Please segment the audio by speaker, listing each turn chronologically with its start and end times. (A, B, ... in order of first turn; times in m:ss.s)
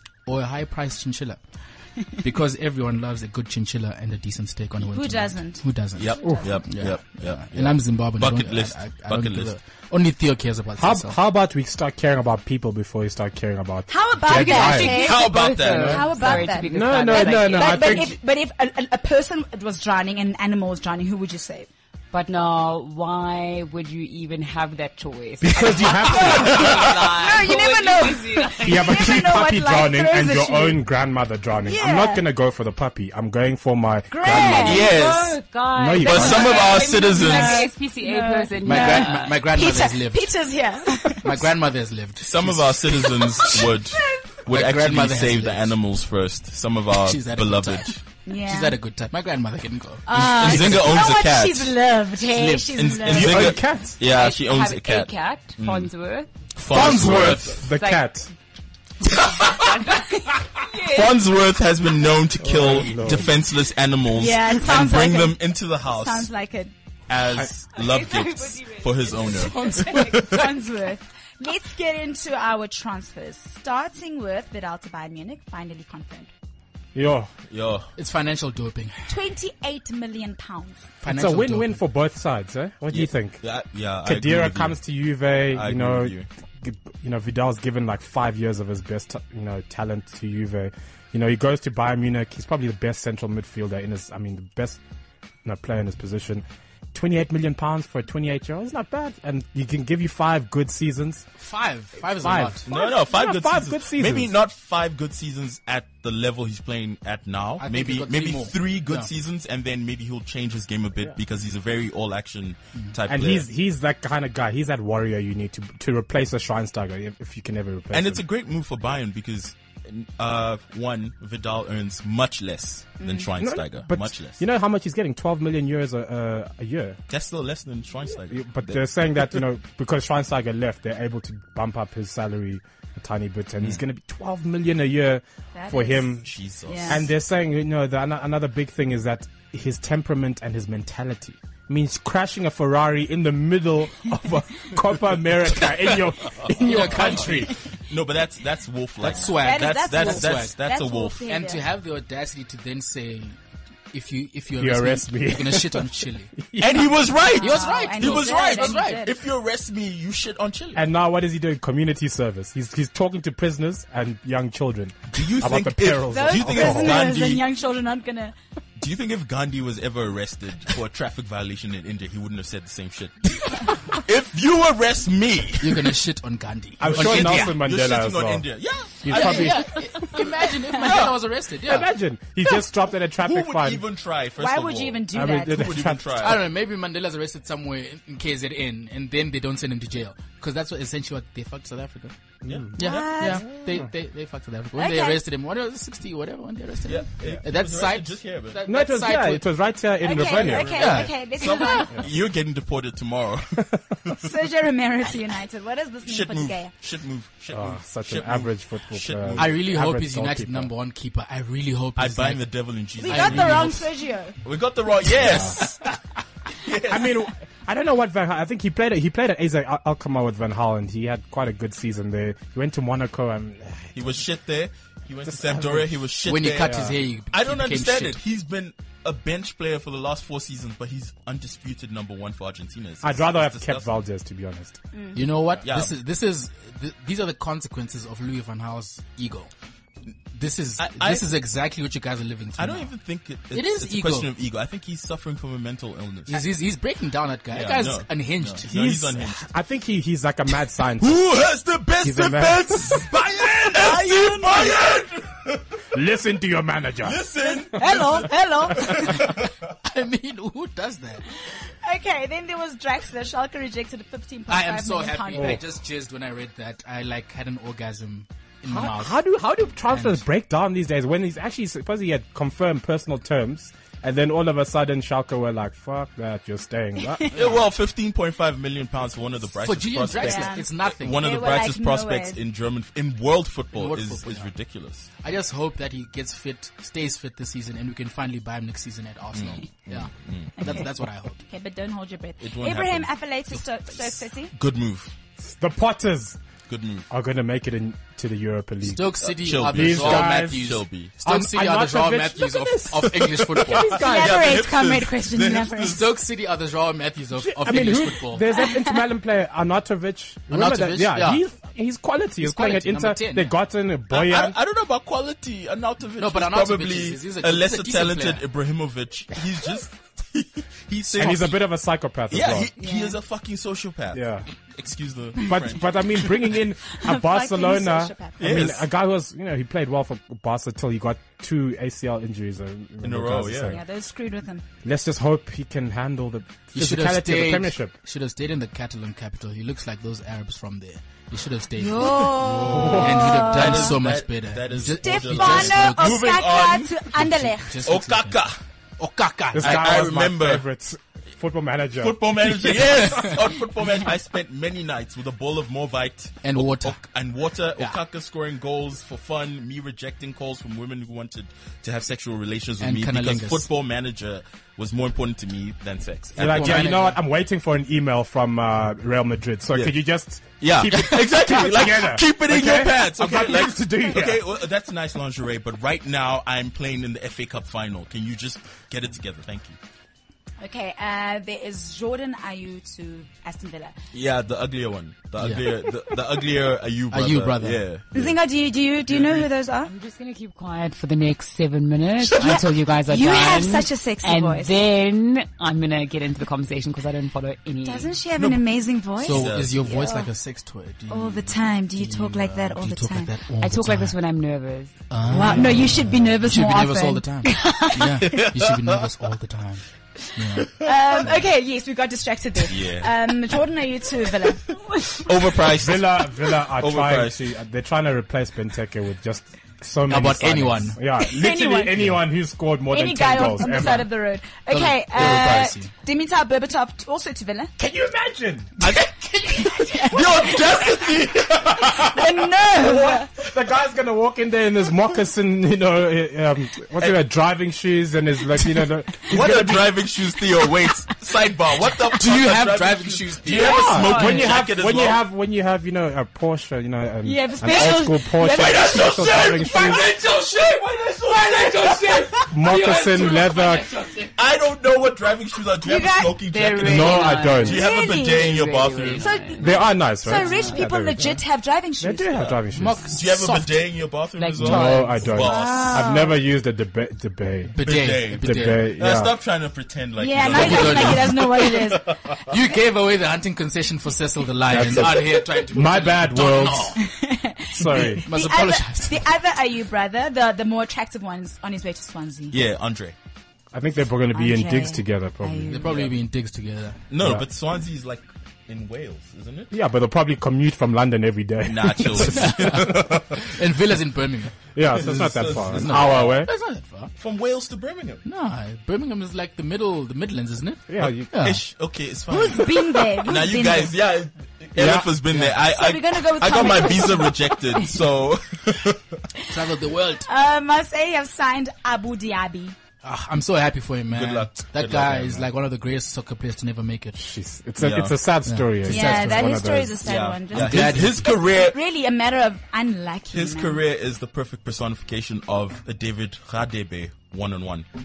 0:00.2-0:01.4 A
0:02.1-0:11.2 A
0:04.8-0:05.6 B
0:06.0-0:09.5 C
0:10.8-0:15.1 D
0:13.9-0:21.7 B
0:14.3-0:18.1 E
0:14.8-0:16.1 C
0:16.4-0:18.1 D
0:22.1-0:29.2 E
0:25.4-0:26.8 D
0:26.1-0:30.8 B
0:28.6-0:34.9 D
0:31.6-0:32.2 B
0:34.1-0:34.9 B
0:34.5-0:35.4 C
0:34.6-0:39.4 E
0:35.7-0:36.6 D
0:36.0-0:37.6 C
0:36.4-0:41.2 B
0:38.6-0:40.3 A
0:41.2-0:43.6 A
0:42.2-0:48.0 C
0:43.4-0:44.2 B
0:44.4-0:45.7 A
0:46.9-0:51.1 A
0:48.2-0:48.8 B
0:50.0-0:53.5 B
0:50.1-0:51.7 C
0:52.2-0:53.3 A
0:52.8-0:55.9 C
0:53.1-0:54.0 D
0:54.0-0:58.1 E
0:56.5-0:57.6 C
0:56.7-0:58.3 D
0:59.3-1:01.2 E
1:00.8-1:06.3 C
1:02.4-1:03.3 D
1:04.1-1:06.7 B
1:07.1-1:10.4 C
1:07.7-1:10.3 E
1:09.4-1:10.2 A
1:09.7-1:16.3 B
1:16.9-1:17.3 D
1:17.5-1:17.9 C
1:18.0-1:19.0 A
1:19.1-1:20.8 B
1:21.0-1:21.8 A
1:21.0-1:23.4 D
1:22.9-1:24.8 C
1:24.0-1:34.8 D
1:25.5-1:26.2 C
1:35.4-1:41.3 D
1:41.4-1:42.6 A
1:42.2-1:44.3 D
1:42.7-1:53.5 C
1:47.6-1:49.1 A
1:53.1-1:58.2 D
1:57.9-2:04.4 C
2:03.0-2:03.3 B
2:03.3-2:07.0 D
2:07.1-2:09.2 C
2:08.2-2:16.3 D
2:15.5-2:16.1 B
2:16.2-2:17.1 C
2:16.7-2:17.0 B
2:16.8-2:27.5 D
2:26.6-2:27.5 A
2:26.9-2:31.2 C
2:29.0-2:30.6 A
2:29.2-2:31.6 B
2:31.2-2:33.4 A
2:33.9-2:36.3 A
2:34.6-2:37.0 D
2:36.6-2:40.8 C
2:37.4-2:39.0 A
2:37.4-2:39.2 B
2:40.7-2:47.1 D
2:45.1-2:47.4 C
2:46.1-2:48.4 B
2:48.8-2:56.0 C
2:55.6-2:57.6 A
2:56.8-2:58.4 D
2:56.8-3:00.2 C
2:59.0-3:00.0 D
2:59.1-3:01.9 A
3:00.8-3:01.1 C
3:01.6-3:03.8 D
3:03.2-3:06.5 C
3:04.4-3:05.7 B
3:05.1-3:06.1 D
3:06.2-3:12.1 A
3:12.4-3:12.7 D
3:12.8-3:19.4 A
3:12.8-3:13.4 B
3:14.7-3:15.2 B
3:16.8-3:18.6 C
3:18.6-3:20.7 D
3:20.0-3:22.0 B
3:20.2-3:24.2 C
3:20.5-3:22.0 A
3:24.2-3:26.7 B
3:26.0-3:29.6 C
3:27.5-3:30.7 D
3:29.4-3:32.4 A
3:32.0-3:33.8 C
3:33.0-3:34.3 B
3:33.1-3:33.8 A
3:34.4-3:35.8 C
3:35.2-3:35.6 D
3:35.3-3:35.7 A
3:36.5-3:37.3 C
3:36.9-3:44.0 D
3:43.9-3:53.9 C
3:45.3-3:45.9 D
3:46.2-3:48.2 A
3:46.6-3:46.9 D
3:53.0-3:54.8 D
3:54.9-3:55.2 B
3:55.1-3:59.5 A
3:55.6-3:55.9 C
4:00.3-4:02.9 A
4:00.8-4:01.2 C
4:02.6-4:06.4 C
4:03.5-4:04.3 A
4:06.3-4:08.9 A
4:07.5-4:09.5 C
4:08.6-4:11.2 D
4:11.0-4:15.8 C
4:12.0-4:13.1 D
4:13.6-4:14.8 B
4:15.9-4:17.2 D
4:17.0-4:19.5 C
4:17.6-4:19.3 B
4:19.2-4:21.2 A
4:21.8-4:25.6 B
4:24.5-4:29.2 A
4:25.3-4:25.6 D
4:28.6-4:37.3 D
4:29.9-4:30.2 A
4:37.3-4:45.1 C
4:39.6-4:41.2 A
4:40.2-4:42.4 B
4:43.8-4:44.5 A
4:45.2-4:51.4 A
4:49.3-4:50.8 C
4:51.4-4:54.5 B
4:52.4-4:53.1 C
4:54.5-4:55.1 C
4:55.4-4:56.4 D
4:56.7-4:57.1 C
4:57.1-5:04.4 D
4:58.9-5:04.0 A
4:59.2-5:01.2 C
5:03.3-5:06.1 C
5:03.7-5:06.0 B
5:05.8-5:08.5 A
5:07.4-5:14.6 D
5:10.5-5:11.4 A
5:12.4-5:13.5 A
5:14.1-5:21.6 C
5:16.2-5:18.4 A
5:21.1-5:22.7 D
5:22.3-5:26.6 C
5:22.8-5:23.2 B
5:24.1-5:24.4 D
5:25.4-5:33.8 D
5:26.9-5:28.6 B
5:28.4-5:28.8 C
5:33.0-5:33.8 C
5:33.7-5:34.6 B
5:34.8-5:37.9 D
5:36.7-5:46.3 A
5:41.8-5:44.0 B
5:42.0-5:47.2 C
5:42.6-5:43.2 D
5:45.0-5:47.7 B
5:47.2-5:48.4 A
5:47.8-5:48.6 C
5:49.0-5:50.2 A
5:49.5-5:52.8 D
5:49.6-5:50.6 C
5:52.0-6:07.0 C
5:52.6-5:53.3 A
5:56.4-5:57.0 A
6:02.8-6:03.7 A
6:06.4-6:14.4 D
6:06.4-6:07.2 A
6:10.6-6:19.8 C
6:20.6-6:23.9 B
6:24.1-6:28.4 C
6:25.4-6:25.6 A
6:27.1-6:27.8 A
6:28.1-6:29.9 B
6:29.8-6:38.1 E
6:32.3-6:34.8 B
6:37.8-6:40.3 B
6:38.4-6:38.6 C
6:39.2-6:39.8 C
6:39.2-6:44.2 A
6:41.1-6:43.3 B
6:43.6-6:45.6 E
6:45.1-6:49.8 A
6:45.3-6:48.5 B
6:48.3-6:49.0 C
6:50.3-6:50.7 A
6:50.7-6:54.8 B
6:52.7-6:53.1 C
6:55.2-6:57.4 C
6:55.6-7:04.0 D
7:00.1-7:01.0 A
7:01.2-7:01.9 B
7:02.9-7:07.7 B
7:03.8-7:04.1 A
7:04.7-7:05.9 A
7:07.8-7:08.8 D
7:08.8-7:09.1 C
7:09.6-7:10.5 B
7:09.6-7:10.1 A
7:10.1-7:12.1 C
7:11.6-7:12.1 D
7:12.0-7:13.3 B
7:12.7-7:20.0 D
7:19.2-7:25.3 C
7:22.2-7:23.9 A
7:23.6-7:30.1 D
7:23.7-7:24.6 E
7:27.2-7:29.4 B
7:28.6-7:30.3 C
7:31.5-7:33.6 A
7:31.7-7:32.3 C
7:32.5-7:33.9 D
7:34.3-7:39.3 C
7:35.8-7:36.4 B
7:36.5-7:39.7 E
7:36.8-7:37.8 D
7:37.6-7:38.6 B
7:39.1-7:42.4 B
7:39.6-7:41.4 D
7:40.4-7:40.8 E
7:42.0-7:43.0 D
7:42.7-7:43.8 A
7:43.1-7:45.9 C
7:44.4-7:46.1 E
7:44.6-7:49.4 D
7:45.4-7:46.4 B
7:47.7-7:48.8 A
7:47.8-7:52.4 C
7:50.2-7:52.2 B
7:50.4-7:51.8 A
7:52.4-7:57.0 A
7:54.7-7:57.0 D
7:54.7-7:55.1 C
7:57.0-8:02.6 B
7:57.7-7:58.2 D
7:57.9-7:59.3 A
8:02.5-8:03.1 C
8:03.7-8:05.9 D
8:04.3-8:06.0 B
8:05.7-8:07.0 A
8:07.1-8:09.7 C
8:07.2-8:07.4 D
8:09.7-8:13.2 D
8:11.6-8:13.1 C
8:12.2-8:14.5 A
8:14.7-8:16.5 D
8:14.9-8:16.4 C
8:15.6-8:17.1 A
8:17.2-8:18.2 C
8:18.2-8:21.6 A
8:20.9-8:21.3 D
8:21.0-8:29.2 C
8:22.3-8:23.9 B
8:24.7-8:25.1 D
8:25.3-8:25.6 A
8:25.7-8:27.4 B
8:29.5-8:30.3 A
8:30.2-8:32.7 B
8:33.0-8:37.3 A
8:34.1-8:35.5 C
8:37.2-8:40.0 D
8:37.8-8:38.2 C
8:38.4-8:39.5 A
8:38.9-8:43.8 B
8:40.0-8:41.8 C
8:40.5-8:41.3 A
8:43.3-8:47.8 C